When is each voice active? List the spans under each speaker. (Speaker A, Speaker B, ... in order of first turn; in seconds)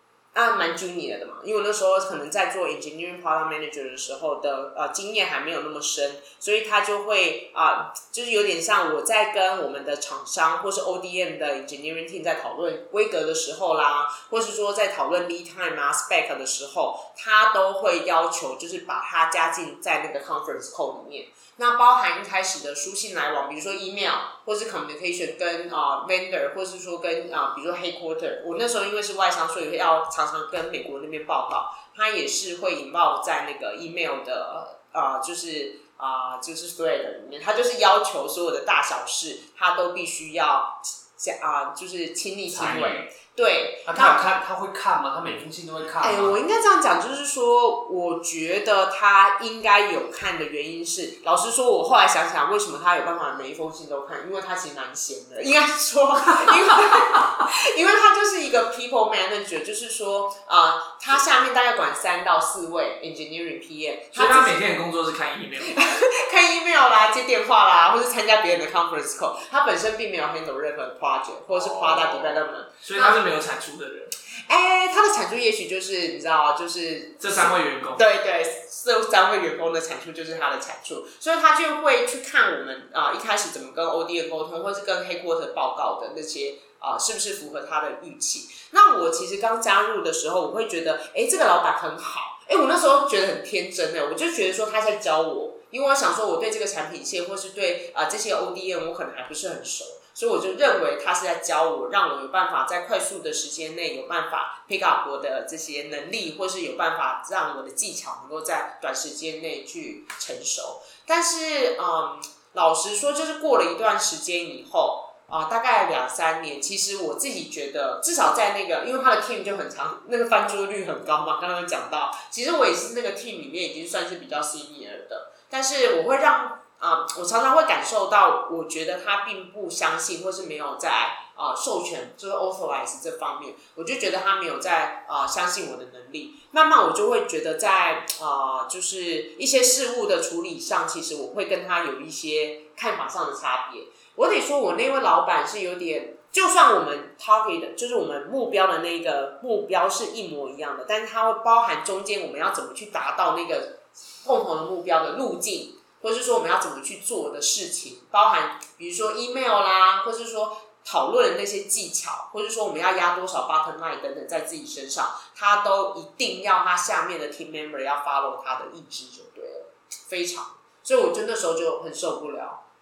Speaker A: 0.3-44.2, 46.0-64.6, 65.6-73.2, 74.5-172.6
Speaker B: 42.5-43.1, 43.9-46.4, 71.5-72.4
Speaker C: 64.1-65.8, 72.8-74.1, 77.2-78.0